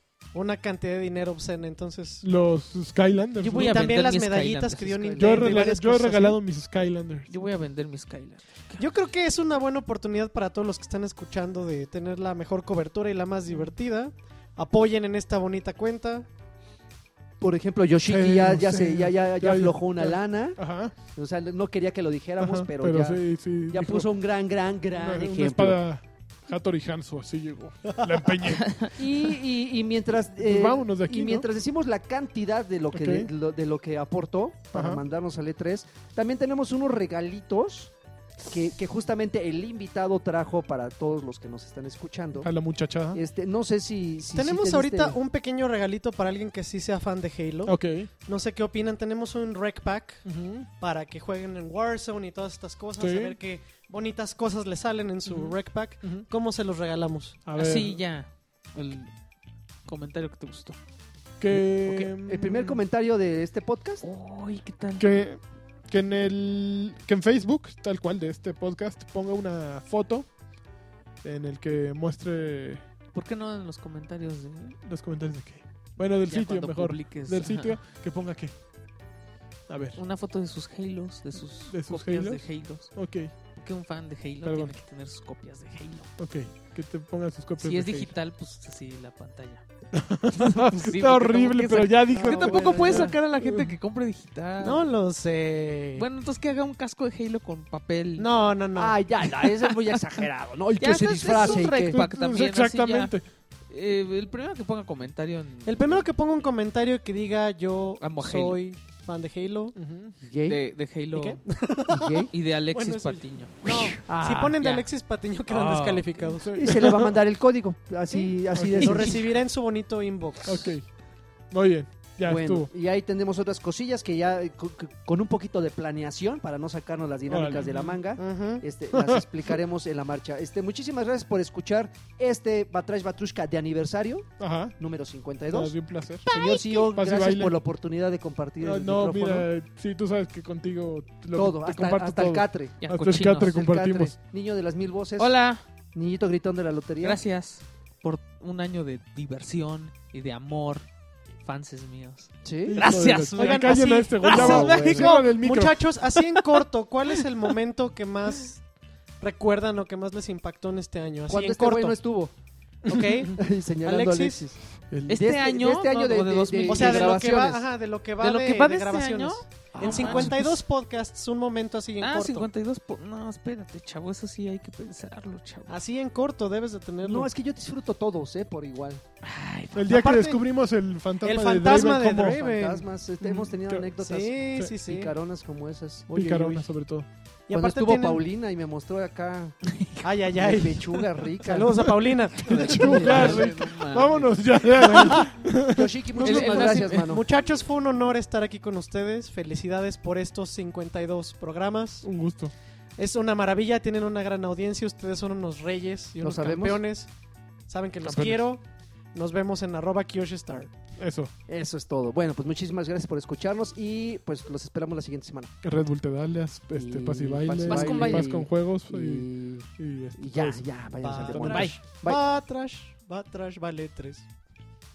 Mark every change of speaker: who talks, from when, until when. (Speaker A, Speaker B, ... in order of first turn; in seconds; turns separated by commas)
Speaker A: 0.3-2.2, Speaker B: 2.2-4.0, Speaker A: 3.4-6.4, Speaker C: 3.4-5.4, Speaker D: 4.9-5.6, Speaker B: 5.2-7.3, Speaker C: 7.3-8.8, Speaker A: 8.8-16.2, Speaker D: 17.4-20.6, Speaker B: 18.1-20.9, Speaker D: 21.1-25.8, Speaker B: 22.4-24.1, Speaker B: 24.9-28.9, Speaker D: 28.9-37.9, Speaker B: 30.4-31.4, Speaker B: 32.9-33.3, Speaker B: 34.7-35.0, Speaker D: 38.5-42.5, Speaker B: 42.4-43.2, Speaker D: 43.1-45.2, Speaker A: 44.3-50.2, Speaker B: 47.6-48.1, Speaker B: 50.2-50.7, Speaker A: 50.8-57.4, Speaker B: 53.0-53.4, Speaker B: 57.4-58.0, Speaker C: 57.5-59.1, Speaker C: 59.9-60.8, Speaker B: 61.4-62.8, Speaker D: 61.5-64.0, Speaker C: 64.0-65.0, Speaker B: 65.0-70.3, Speaker B: 71.2-72.8, Speaker C: 73.1-74.8, Speaker B: 74.8-78.5, Speaker C: 76.3-77.7, Speaker B: 79.7-80.0, Speaker C: 79.9-82.9, Speaker B: 81.7-83.3, Speaker C: 83.5-86.1, Speaker B: 84.4-84.7, Speaker B: 86.2-88.1, Speaker C: 87.6-89.6, Speaker B: 89.9-93.7, Speaker C: 90.3-94.8, Speaker D: 92.2-93.1, Speaker A: 94.6-96.0, Speaker C: 96.0-98.3, Speaker A: 98.2-99.0, Speaker D: 98.7-102.0, Speaker C: 100.8-103.1, Speaker B: 101.6-103.2, Speaker C: 103.7-106.0, Speaker A: 105.6-109.7, Speaker C: 108.0-108.6, Speaker B: 109.8-110.1, Speaker D: 110.2-110.6, Speaker C: 110.5-111.4, Speaker A: 111.1-116.8, Speaker D: 111.9-112.3, Speaker C: 112.3-114.9, Speaker C: 115.5-116.2, Speaker B: 116.3-117.1, Speaker D: 116.5-119.2, Speaker A: 118.1-120.7, Speaker B: 118.5-119.1, Speaker B: 120.4-120.8, Speaker B: 121.5-122.7, Speaker D: 122.2-135.7, Speaker B: 127.3-128.0, Speaker A: 128.2-128.6, Speaker B: 128.9-129.2, Speaker B: 134.4-134.7, Speaker B: 135.5-136.2, Speaker C: 136.2-136.9, Speaker D: 136.2-139.5, Speaker B: 136.9-137.5, Speaker B: 138.6-144.1, Speaker D: 141.3-142.7, Speaker C: 142.8-143.6, Speaker D: 143.3-145.3, Speaker C: 145.2-145.6, Speaker D: 145.9-147.2, Speaker C: 147.0-150.8, Speaker C: 151.4-155.2, Speaker D: 152.4-152.8, Speaker B: 152.7-155.9, Speaker A: 153.3-158.6, Speaker C: 156.1-156.6, Speaker A: 159.2-161.9, Speaker D: 161.3-162.3, Speaker A: 162.8-164.4, Speaker D: 163.3-164.6, Speaker B: 164.9-165.2, Speaker D: 165.1-167.7, Speaker C: 165.1-167.5, Speaker A: 166.6-172.5, Speaker C: 168.2-170.3, Speaker D: 169.7-170.6, Speaker C: 172.0-175.8, Speaker A: 175.7-177.3, Speaker D: 177.0-179.0, Speaker C: 179.2-179.9, Speaker B: 179.7-182.4, Speaker A: 179.9-180.4, Speaker A: 181.2-182.8, Speaker D: 182.1-186.7, Speaker A: 184.0-185.1, Speaker B: 186.1-187.1, Speaker A: 187.5-188.2, Speaker D: 187.5-189.6, Speaker C: 189.6-190.0, Speaker A: 190.0-193.3, Speaker D: 190.3-191.8, Speaker C: 192.4-195.3, Speaker B: 192.5-195.9, Speaker D: 192.8-193.4, Speaker D: 195.7-197.2, Speaker C: 196.2-197.2, Speaker A: 196.2-202.1, Speaker B: 202.0-202.5, Speaker A: 203.0-207.1, Speaker D: 206.2-206.8, Speaker A: 207.7-208.6, Speaker B: 208.0-208.5, Speaker A: 209.1-210.7, Speaker B: 211.0-211.3, Speaker D: 211.5-215.5, Speaker B: 215.6-219.3, Speaker D: 216.7-222.2, Speaker C: 217.7-218.3, Speaker B: 219.8-221.7, Speaker A: 221.0-224.2, Speaker C: 221.5-221.8